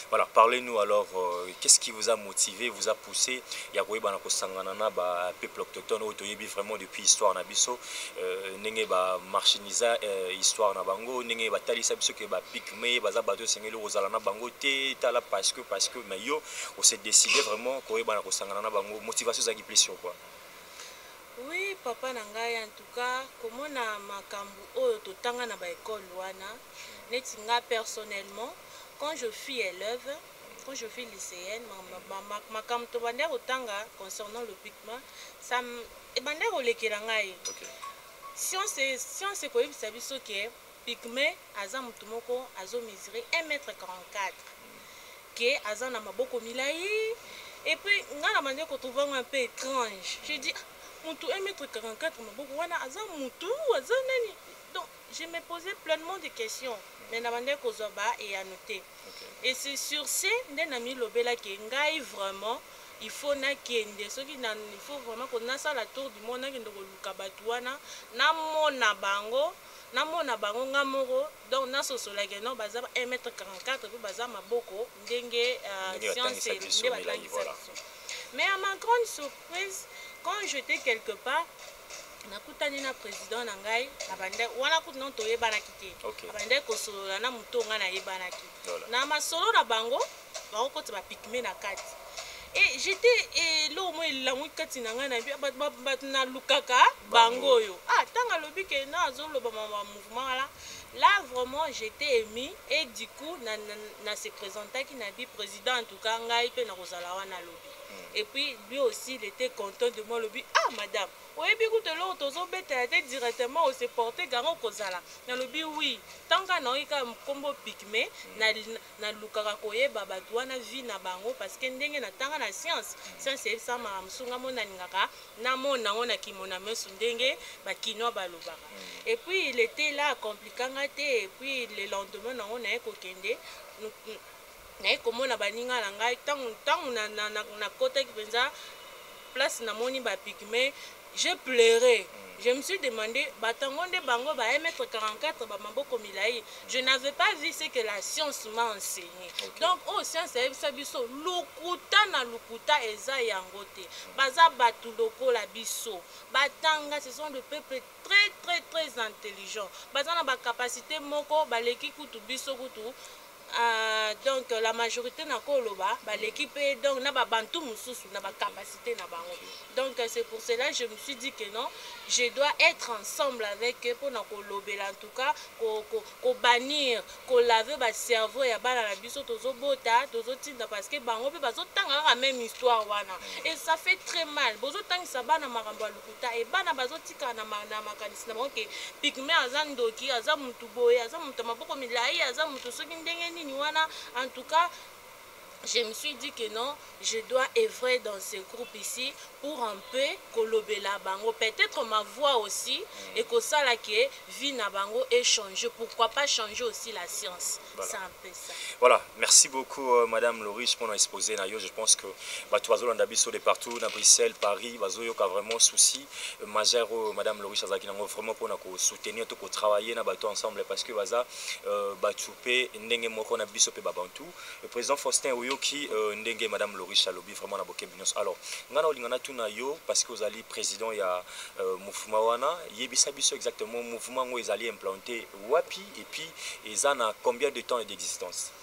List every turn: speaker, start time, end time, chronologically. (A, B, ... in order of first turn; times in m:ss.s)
0:00.1-0:20.2 A
0:21.4-0:37.4 B
0:37.4-0:37.7 A
0:38.4-0:44.5 B
0:45.4-0:58.8 B
0:50.2-0:50.5 A
0:59.1-0:59.4 A
0:59.4-1:17.8 B
1:15.8-1:17.6 A
1:18.3-1:21.5 B
1:22.3-1:32.0 B
1:26.0-1:26.4 A
1:32.5-2:14.2 B
1:37.0-1:37.6 A
1:58.3-1:58.5 A
2:08.8-2:09.0 A
2:14.8-2:18.5 B
2:19.3-2:43.0 B
2:29.4-2:29.7 A
2:43.5-3:14.7 B
2:46.1-2:46.4 A
2:48.2-2:48.5 A
2:49.2-2:49.5 A
3:03.2-3:03.5 A
3:15.6-3:28.6 B
3:23.0-3:23.3 A
3:28.8-3:58.5 A